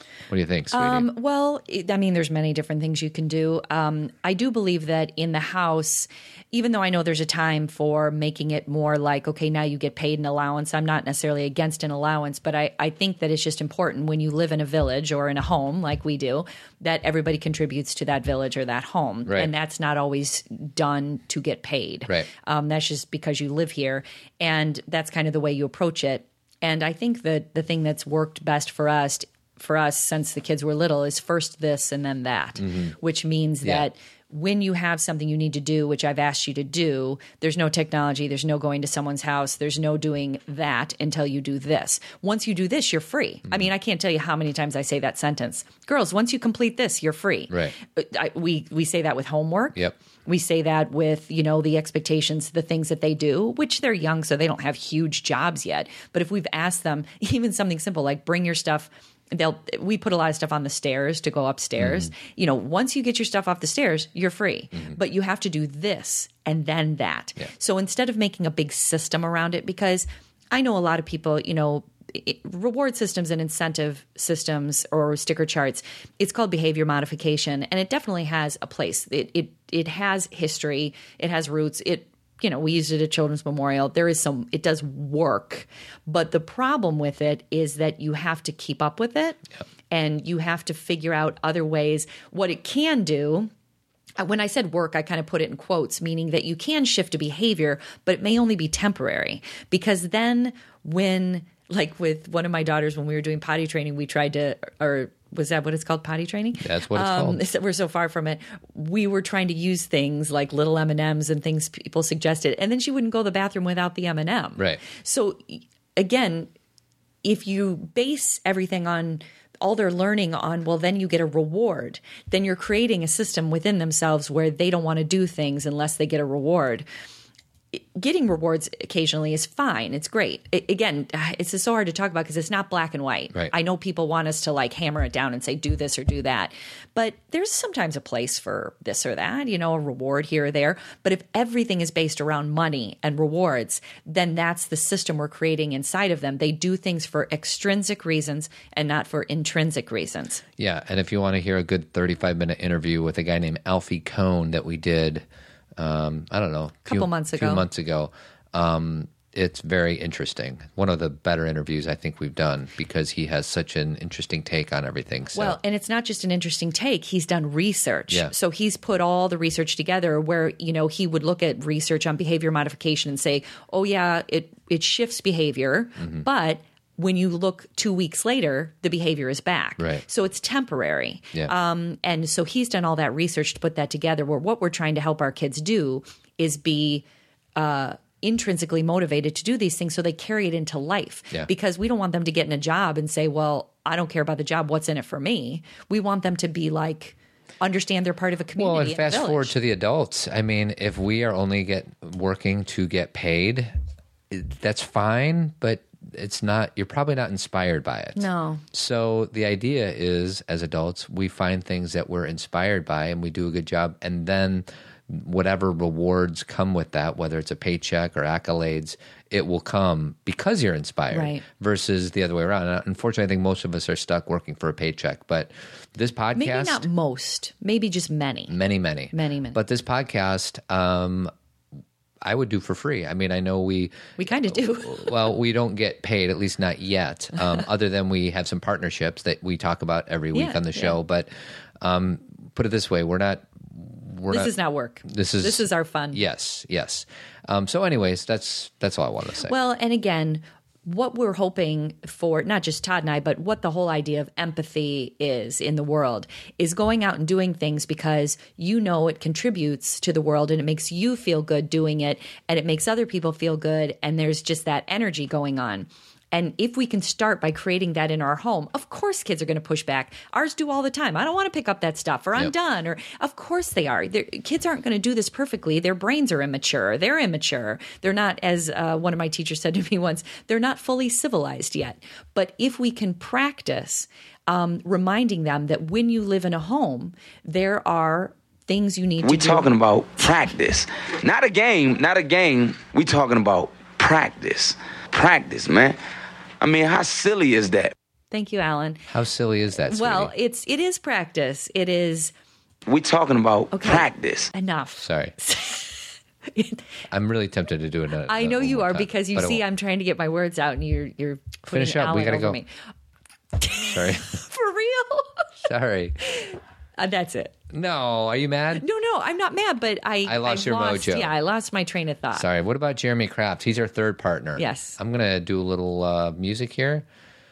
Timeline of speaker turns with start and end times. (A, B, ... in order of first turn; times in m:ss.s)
0:00.3-0:01.0 A
0:00.7-1:29.4 B
0:19.2-0:19.5 A
0:47.5-0:47.7 A
1:29.9-1:33.5 B
1:34.2-1:56.5 B
1:46.6-1:47.4 A
1:57.2-2:06.8 B
2:07.7-2:30.4 B
2:30.6-2:35.2 A
2:35.8-2:45.6 A
2:36.8-2:37.6 B
2:45.3-3:07.0 B
2:59.8-3:00.0 A
3:07.6-3:19.5 B
3:18.6-3:23.7 A
3:24.3-3:46.8 A
3:28.1-3:28.6 B
3:41.1-3:41.4 B
3:46.3-3:48.5 B
3:48.5-3:51.3 A
3:49.1-3:49.6 B
3:52.2-4:01.3 A
3:54.2-3:55.3 B
4:00.3-4:01.0 B
4:01.8-4:04.5 A
4:04.3-4:06.2 B
4:05.1-4:09.5 A
4:09.5-4:49.7 B
4:49.2-4:56.0 C
4:56.6-4:57.9 C
4:58.3-4:59.1 B
4:59.1-5:00.3 A
4:59.8-5:02.3 B
5:02.9-5:04.5 C
5:03.7-5:06.8 B
5:05.0-5:05.3 A
5:07.1-5:09.6 A
5:08.3-5:12.7 B
5:11.7-5:12.6 A
5:13.6-5:15.5 B
5:13.8-5:14.4 A
5:15.6-5:16.2 A
5:16.4-5:17.5 B
5:17.7-5:18.8 A
5:18.8-5:22.4 B
5:20.2-5:21.3 A
5:22.3-5:27.0 A
5:24.6-5:25.0 B